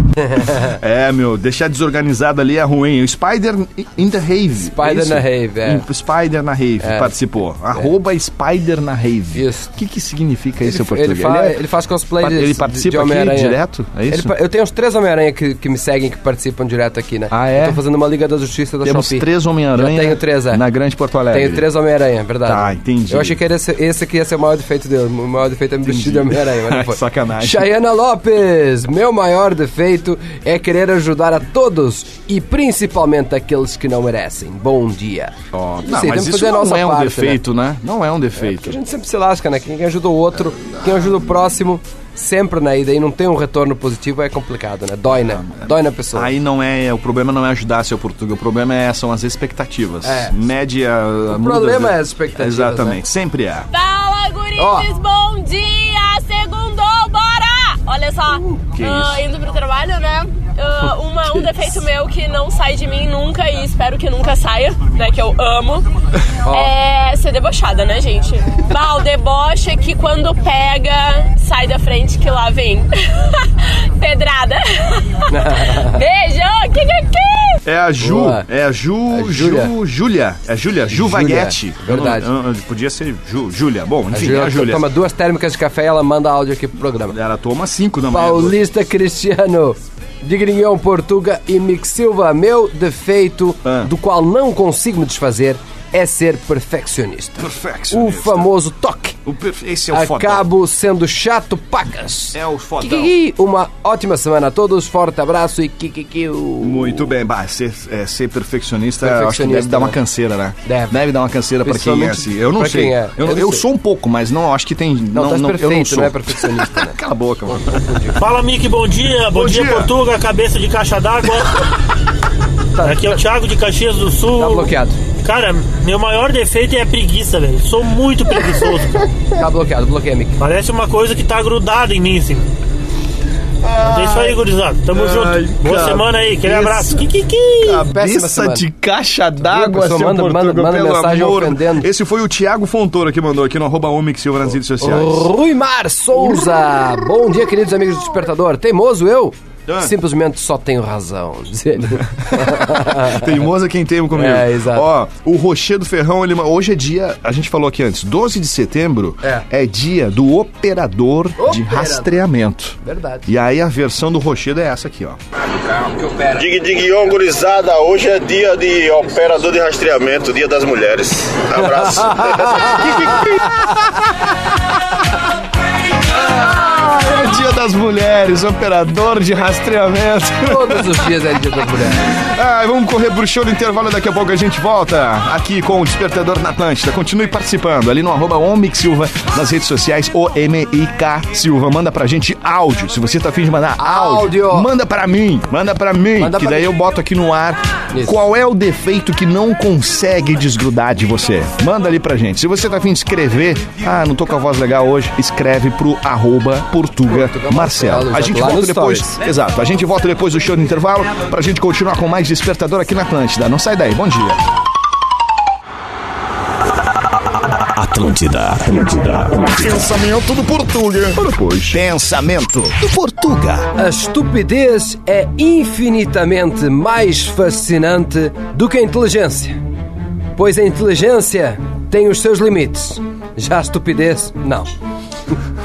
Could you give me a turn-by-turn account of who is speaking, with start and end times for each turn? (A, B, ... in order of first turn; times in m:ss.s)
0:00.2-0:00.8 A
0:00.7-0:11.6 B
0:04.6-0:05.8 A
0:06.8-0:07.1 A
0:09.3-0:09.7 A
0:10.6-0:13.6 A
0:12.2-0:14.3 B
0:14.1-0:20.6 A
0:17.3-0:17.8 B
0:18.8-0:21.7 B
0:21.3-0:37.4 A
0:22.4-0:23.4 B
0:25.8-0:27.7 B
0:35.5-0:38.8 B
0:38.4-0:46.3 A
0:40.6-0:41.2 B
0:45.1-0:53.7 B
0:50.0-0:50.3 A
0:51.3-0:53.0 A
0:53.7-1:05.9 C
0:54.6-0:54.8 A
0:58.7-0:59.2 B
1:06.4-1:06.7 A
1:06.4-1:17.6 C
1:15.3-1:16.0 A
1:17.6-1:24.8 B
1:18.0-1:18.4 A
1:19.1-1:19.7 A
1:20.9-1:22.3 A
1:24.1-1:27.2 A
1:27.1-1:28.6 B
1:28.1-1:39.2 A
1:33.6-1:33.9 B
1:37.4-1:38.5 B
1:39.2-1:40.5 B
1:39.9-1:47.1 A
1:42.3-1:43.1 B
1:46.6-1:58.3 B
1:49.0-1:50.0 A
1:50.6-1:51.0 A
1:51.6-1:53.6 A
1:55.1-1:58.2 A
1:58.2-2:01.6 D
1:59.2-1:59.9 B
2:02.7-2:03.2 A
2:02.8-2:04.7 D
2:04.4-2:05.0 A
2:05.2-2:09.1 D
2:09.4-2:10.4 A
2:10.4-2:12.5 D
2:13.6-2:17.1 B
2:13.8-2:17.8 D
2:17.6-2:25.3 B
2:17.9-2:18.6 A
2:19.4-2:21.9 A
2:24.8-2:33.4 A
2:29.7-2:29.9 B
2:32.0-2:45.2 B
2:34.1-2:34.8 A
2:41.4-2:42.2 A
2:42.8-2:43.3 A
2:45.7-2:46.4 A
2:46.3-2:53.1 E
2:52.0-2:53.2 A
2:52.6-2:54.1 B
2:56.3-3:01.0 B
3:00.4-3:02.1 A
3:02.0-3:34.4 B
3:13.8-3:14.7 A
3:16.2-3:16.7 A
3:17.9-3:18.2 A
3:27.1-3:29.2 A
3:37.3-3:43.7 B
3:43.8-3:49.6 A
3:50.4-3:54.7 A